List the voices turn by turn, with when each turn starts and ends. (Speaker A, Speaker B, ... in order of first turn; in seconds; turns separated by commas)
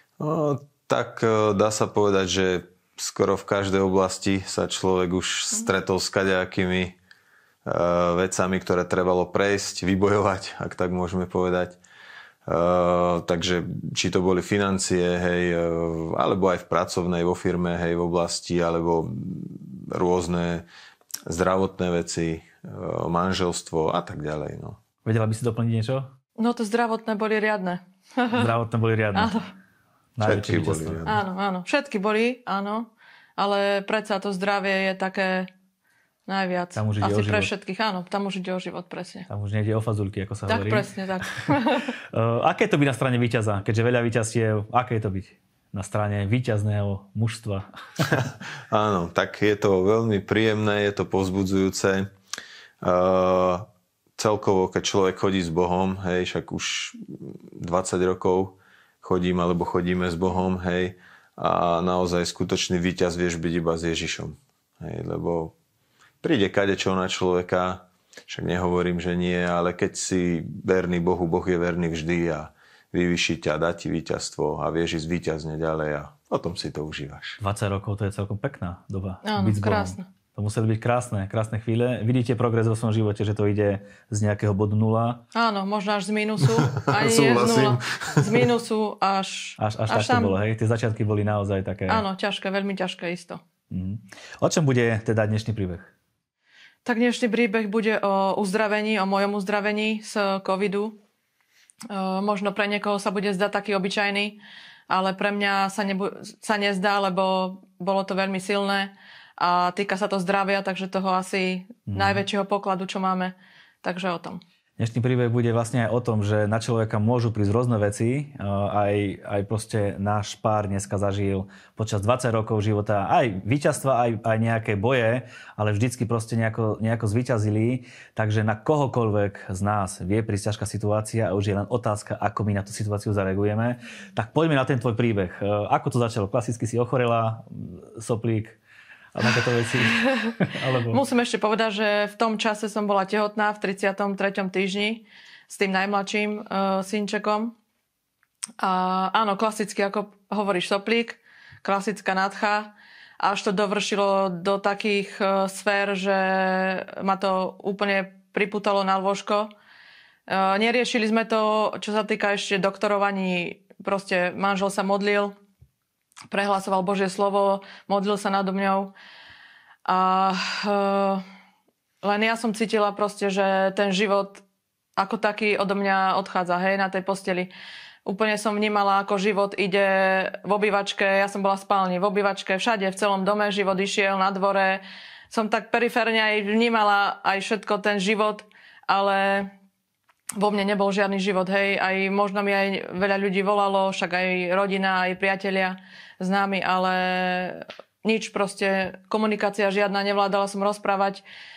Speaker A: 0.2-7.0, Speaker A: 7.7-11.8, Speaker A: 12.5-20.6, Speaker A: 21.3-24.8, Speaker B: 25.1-26.1, Speaker C: 26.4-28.5, Speaker B: 28.3-29.4, Speaker C: 29.1-29.5, Speaker B: 30.2-31.1, Speaker A: 30.2-31.2, Speaker C: 31.1-35.5, Speaker C: 36.3-39.3, Speaker B: 36.8-37.5, Speaker B: 39.3-40.9, Speaker C: 40.5-41.9, Speaker B: 42.1-48.2, Speaker A: 48.7-52.1, Speaker A: 52.8-53.7, Speaker A: 54.2-65.5, Speaker A: 66.2-77.4, Speaker B: 77.4-85.2, Speaker C: 79.2-80.1, Speaker C: 85.3-90.4, Speaker A: 86.7-88.4, Speaker B: 89.6-92.0, Speaker C: 91.9-93.4, Speaker B: 93.7-95.9, Speaker C: 96.8-101.0, Speaker C: 101.9-104.4, Speaker C: 104.9-114.4, Speaker B: 111.9-112.2, Speaker B: 114.8-138.6, Speaker B: 139.1-141.0, Speaker C: 139.8-140.4, Speaker C: 140.9-147.6, Speaker C: 148.6-159.5, Speaker C: 160.3-165.3, Speaker C: 166.3-168.9, Speaker C: 169.9-171.2, Speaker C: 172.0-174.4, Speaker C: 175.0-177.5, Speaker C: 178.1-189.5, Speaker C: 190.4-201.2